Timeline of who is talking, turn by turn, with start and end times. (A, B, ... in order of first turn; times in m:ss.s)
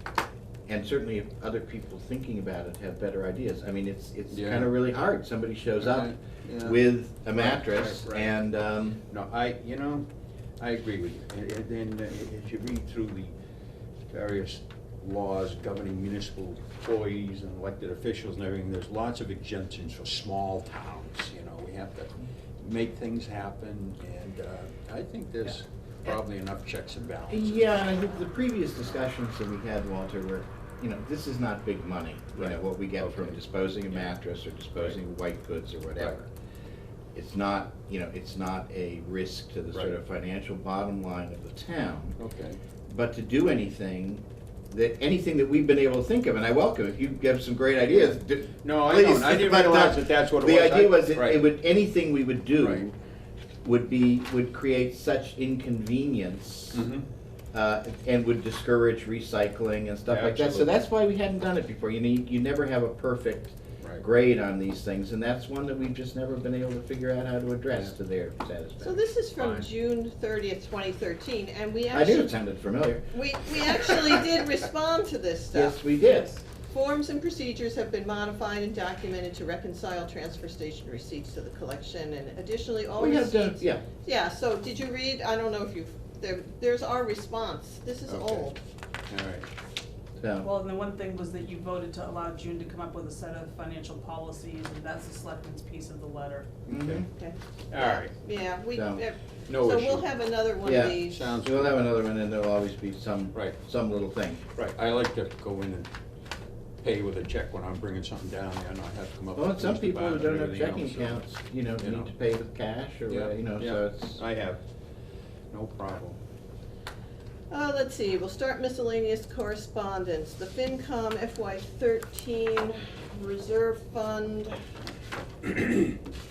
0:00.7-0:09.0 A
0:04.3-0:04.8 B
0:05.8-0:08.4 B
0:09.1-0:10.1 B
0:10.6-0:13.3 B
0:14.1-0:28.3 B
0:27.3-0:36.3 A
0:32.4-0:34.2 B
0:37.2-0:42.2 A
0:42.2-0:42.6 B
0:42.9-0:52.9 A
0:47.9-0:51.4 B
0:52.6-0:52.9 B
0:53.6-0:56.8 A
0:56.7-0:57.1 B
0:57.5-1:09.6 A
1:00.1-1:00.8 B
1:03.8-1:04.0 B
1:08.8-1:12.4 C
1:11.9-1:13.0 A
1:13.1-1:28.6 C
1:15.5-1:16.4 A
1:23.0-1:23.8 A
1:28.1-1:28.5 B
1:29.1-1:29.5 B
1:30.2-1:30.5 A
1:30.4-1:36.6 D
1:36.7-1:37.0 B
1:36.7-1:37.1 A
1:37.1-1:41.3 C
1:37.7-1:38.2 B
1:38.7-1:39.0 A
1:39.5-1:40.1 B
1:40.6-1:44.4 A
1:40.8-1:41.9 B
1:44.6-1:45.9 B
1:46.8-1:52.1 B
1:49.4-1:54.2 A
1:53.1-1:54.6 B
1:55.5-1:56.2 B
1:57.5-2:04.6 C